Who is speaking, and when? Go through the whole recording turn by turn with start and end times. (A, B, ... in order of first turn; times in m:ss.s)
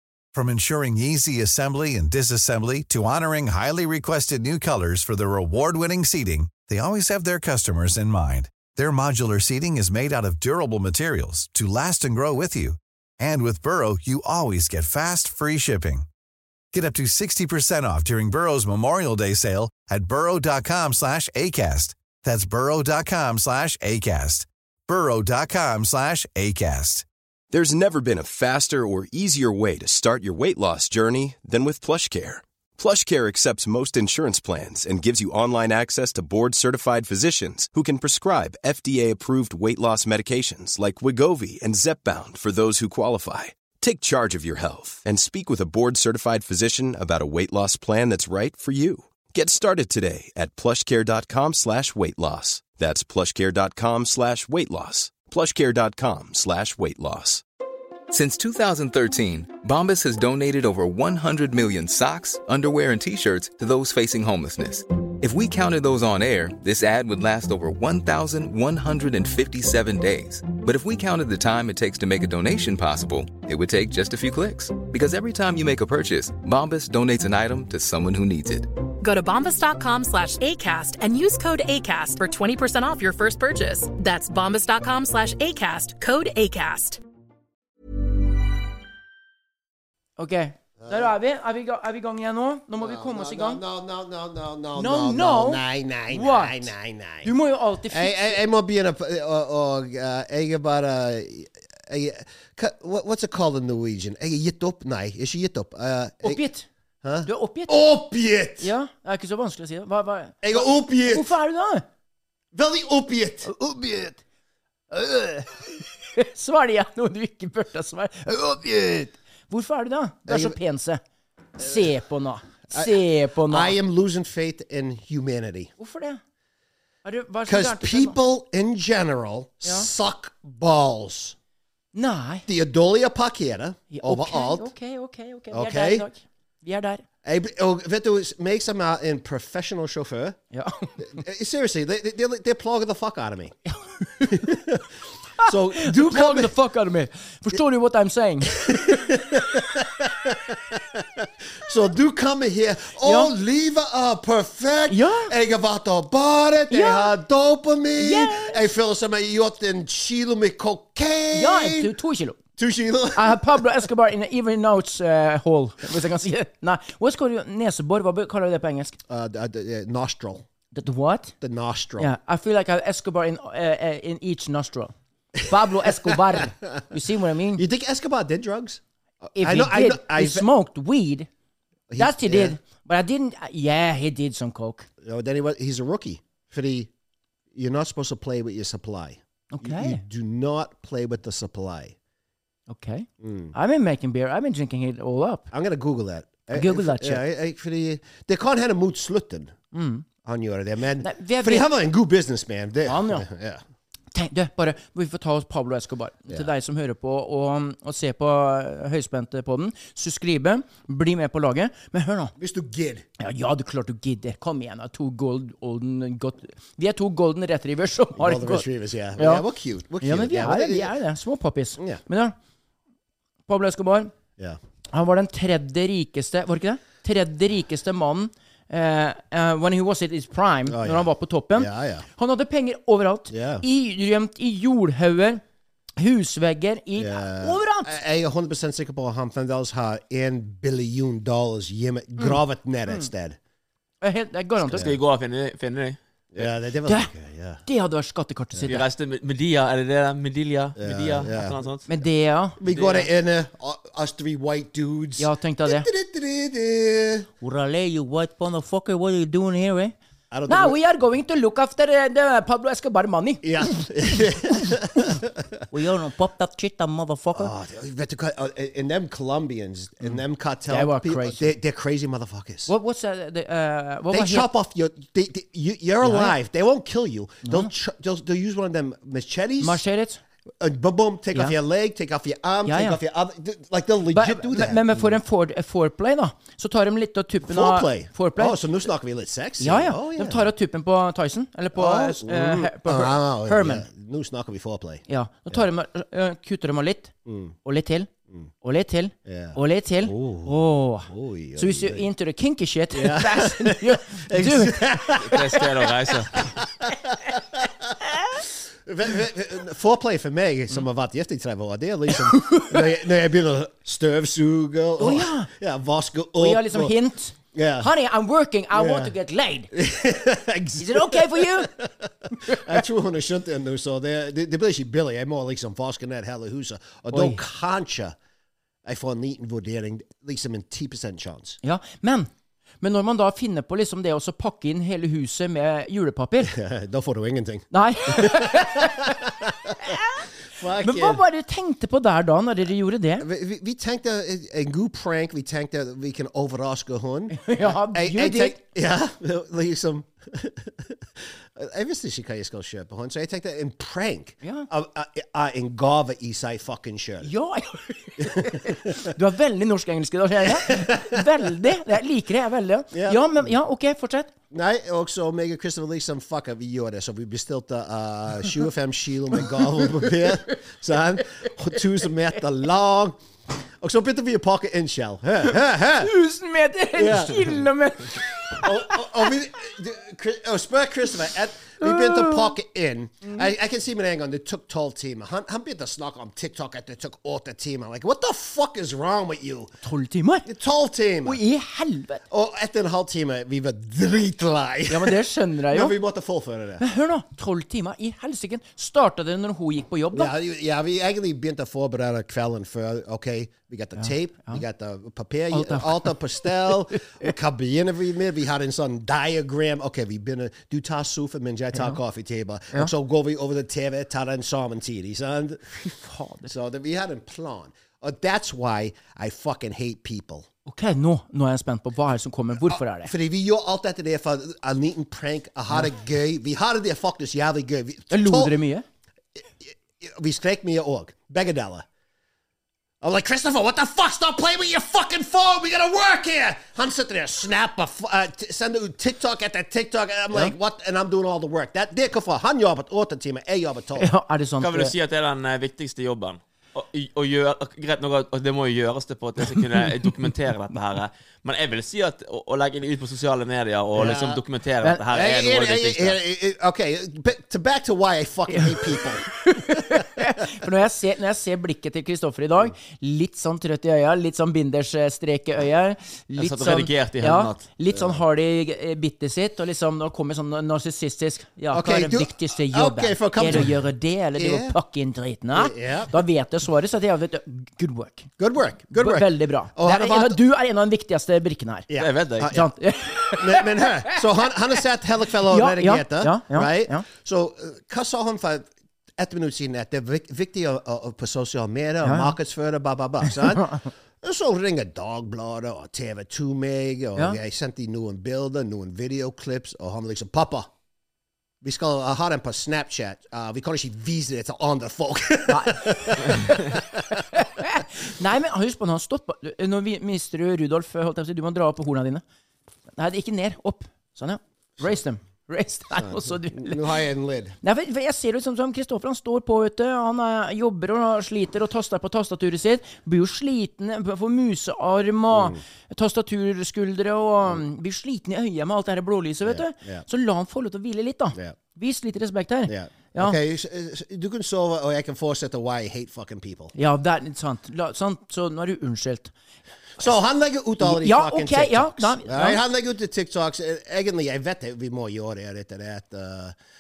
0:00.3-0:16.1 A
0:16.7-0:27.1 A
0:27.5-0:57.4 B
0:58.1-1:18.7 C
1:19.0-1:27.0 D
1:30.2-1:33.6 E
1:30.8-1:31.1 F
1:32.8-1:37.3 F
1:34.8-1:36.7 E
1:37.2-1:38.4 E
1:37.9-1:46.4 F
1:46.2-1:46.7 E
1:47.0-1:48.7 F
1:47.2-1:47.8 E
1:48.6-1:51.8 E
1:50.4-1:51.3 F
1:52.5-1:53.5 F
1:53.5-1:54.2 E
1:54.9-1:55.4 E
1:56.1-2:01.0 E
2:00.3-2:00.6 F
2:01.6-2:03.7 E
2:02.7-2:05.7 F
2:05.8-2:06.2 E
2:07.0-2:08.2 E
2:07.5-2:11.4 F
2:09.6-2:09.9 E
2:11.9-2:12.5 E
2:12.5-2:14.7 F
2:13.9-2:17.0 E
2:15.5-2:16.1 F
2:17.2-2:20.4 F
2:20.5-2:21.0 E
2:21.0-2:23.6 F
2:24.0-2:24.5 E
2:24.2-2:24.8 F
2:25.4-2:29.0 E
2:25.4-2:26.5 F
2:28.5-2:41.9 F
2:33.0-2:33.3 E
2:34.9-2:35.3 E
2:36.7-2:37.1 E
2:38.0-2:38.6 E
2:41.3-2:42.4 E
2:42.6-2:43.6 F
2:43.2-2:49.0 E
2:49.1-2:50.4 F
2:50.7-2:51.4 E
2:51.4-2:52.1 F
2:52.0-2:57.6 E
2:57.6-2:58.8 F
2:59.3-3:00.5 F
2:59.4-3:01.3 E
3:01.9-3:02.6 F
3:02.0-3:04.9 E
3:05.0-3:06.9 F
3:07.5-3:12.0 F
3:09.5-3:10.0 E
3:12.7-3:15.5 E
3:13.2-3:13.5 F
3:15.5-3:19.6 F
3:16.5-3:17.2 E
3:19.7-3:20.0 E
3:20.2-3:23.6 F
3:21.0-3:21.7 E
3:22.8-3:23.3 E
3:24.1-3:32.3 E
3:32.4-3:33.1 F
3:33.2-3:38.7 E
3:38.2-3:40.9 F
3:39.2-3:39.4 E
3:40.0-3:42.4 E
3:43.5-3:44.1 E
3:44.9-3:55.4 E
3:50.7-3:52.1 F
3:53.3-3:53.6 F
3:56.0-3:57.9 E
3:57.0-4:03.4 F
4:04.0-4:04.9 E
4:04.7-4:06.0 G
4:06.3-4:07.6 F
4:06.9-4:07.1 E
4:07.7-4:08.8 E
4:08.7-4:11.9 G
4:10.8-4:11.6 F
4:11.9-4:12.6 E
4:12.6-4:17.3 F
4:12.7-4:13.1 G
4:15.2-4:15.9 E
4:17.4-4:20.0 E
4:20.3-4:20.8 F
4:20.5-4:24.7 E
4:23.4-4:25.6 F
4:25.7-4:27.5 E
4:27.3-4:32.7 F
4:30.7-4:31.5 E
4:32.7-4:34.5 E
4:34.1-4:39.8 F
4:36.0-4:36.4 E
4:37.4-4:37.7 E
4:39.6-4:40.2 E
4:40.6-4:45.2 F
4:42.6-4:43.0 E
4:44.1-4:48.6 E
4:47.5-4:50.5 F
4:49.6-4:53.8 E
4:51.7-4:55.6 F
4:55.1-5:05.1 E
4:57.3-4:57.6 F
4:59.3-5:02.1 F
5:02.9-5:08.0 F
5:05.2-5:06.4 G
5:08.8-5:17.0 F
5:12.2-5:12.8 E
5:15.0-5:15.5 E
5:16.4-5:19.7 E
5:17.5-5:17.9 F
5:18.7-5:19.1 F
5:19.7-5:21.9 F
5:20.8-5:21.7 E
5:22.4-5:28.2 F
5:22.4-5:22.7 E
5:27.1-5:27.4 E
5:28.8-5:31.6 F
5:31.6-5:32.3 E
5:32.8-5:36.6 E
5:36.4-5:40.0 F
5:37.7-5:40.2 E
5:40.6-5:41.2 F
5:40.8-5:43.3 E
5:43.2-5:51.0 F
5:47.3-5:48.6 E
5:51.6-5:57.3 F
5:54.4-5:54.7 E
5:57.2-6:04.3 E
5:58.2-5:59.1 F
6:00.5-6:01.2 F
6:02.9-6:03.3 F
6:04.5-6:13.2 F
6:13.8-6:16.1 F
6:16.0-6:19.3 E
6:17.0-6:17.7 F
6:18.5-6:29.8 F
6:21.8-6:22.5 E
6:29.8-6:30.5 E
6:30.4-6:31.4 F
6:31.2-6:32.2 E
6:32.3-6:36.8 F
6:34.9-6:35.9 E
6:36.8-6:40.3 E
6:40.1-6:55.6 F
6:44.0-6:44.6 E
6:45.5-6:47.3 E
6:51.7-6:52.0 E
6:55.7-6:56.5 E
6:56.4-7:00.5 F
7:00.7-7:03.1 E
7:02.6-7:08.6 F
7:08.1-7:08.8 E
7:09.6-7:11.8 F
7:13.0-7:24.1 F
7:24.0-7:24.9 E
7:24.6-7:36.2 G
7:34.0-7:34.4 F
7:35.1-7:40.4 F
7:39.4-7:58.3 E
7:46.4-7:47.6 G
7:47.9-7:48.2 F
7:51.7-7:53.8 F
7:54.4-7:54.8 F
7:55.5-7:56.1 F
7:58.4-8:00.4 F
7:59.0-8:01.9 E
8:01.9-8:02.7 F
8:02.0-8:02.5 G
8:02.4-8:04.2 E
8:03.3-8:20.7 F
8:05.5-8:07.1 E
8:12.0-8:12.3 E
8:13.2-8:13.9 E
8:21.6-8:27.0 F
8:25.5-8:32.2 E
8:33.0-8:36.9 E
8:36.0-8:37.6 F
8:37.6-8:53.4 E
8:45.3-8:45.6 F
8:49.4-8:50.0 F
8:52.7-8:56.7 F
8:56.8-8:59.3 E
9:00.0-9:06.6 F
9:00.8-9:02.6 E